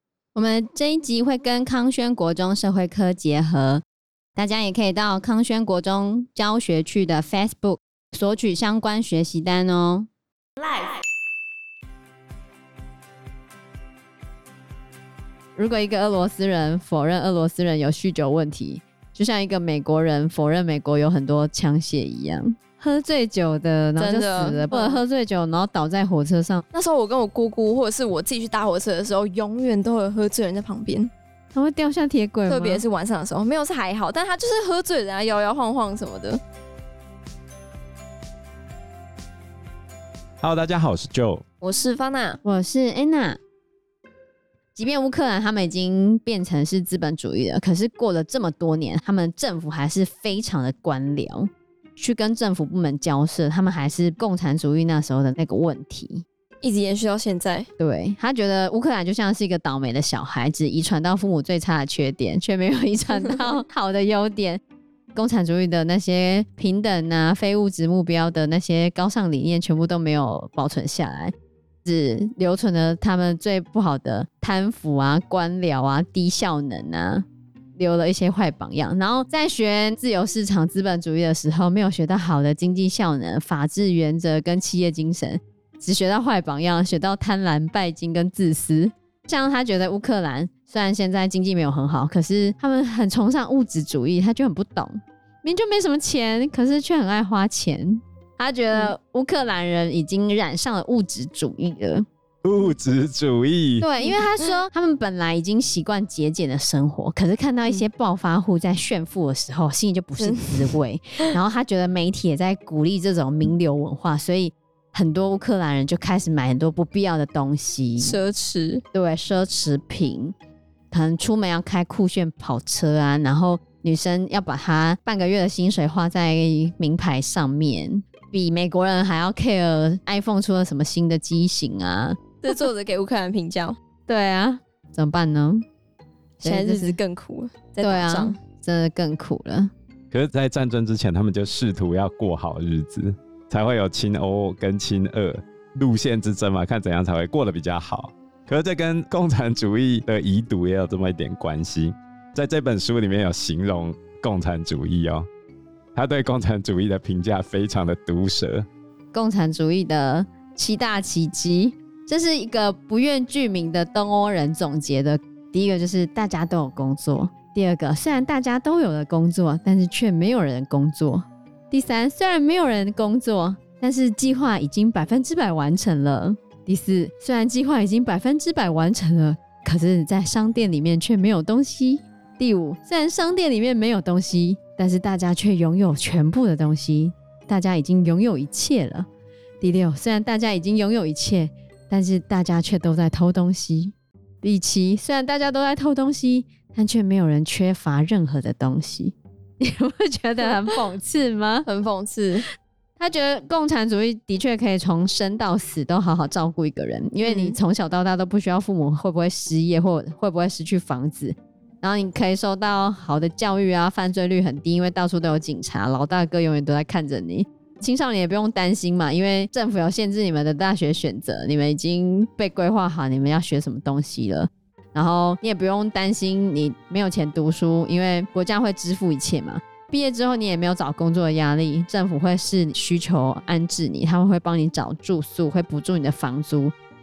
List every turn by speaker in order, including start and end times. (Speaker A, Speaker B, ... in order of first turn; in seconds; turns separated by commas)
Speaker A: 0.3-3.8, Speaker A: 4.4-10.1, Speaker A: 15.6-26.6, Speaker B: 24.0-25.0, Speaker B: 26.7-31.1, Speaker A: 31.5-32.8, Speaker B: 32.5-36.4, Speaker C: 40.4-41.4, Speaker B: 41.6-42.4, Speaker A: 42.4-43.4, Speaker A: 44.8-56.2, Speaker B: 56.6-57.7, Speaker A: 57.8-64.6, Speaker B: 63.2-63.5, Speaker A: 65.2-71.3, Speaker A: 71.8-77.3, Speaker A: 77.8-102.1, Speaker C: 102.4-103.9, Speaker A: 103.8-118.2, Speaker B: 110.2-110.8, Speaker B: 118.0-118.8, Speaker A: 118.9-120.3, Speaker A: 120.9-132.2, Speaker B: 132.4-133.8, Speaker A: 134.1-135.7, Speaker A: 136.4-137.0, Speaker B: 136.4-138.4, Speaker A: 137.8-139.7, Speaker C: 140.1-155.3, Speaker C: 155.9-158.7, Speaker A: 159.1-189.1, Speaker A: 189.6-201.7, Speaker B: 201.7-202.5, Speaker A: 203.0-236.8, Speaker B: 207.2-207.6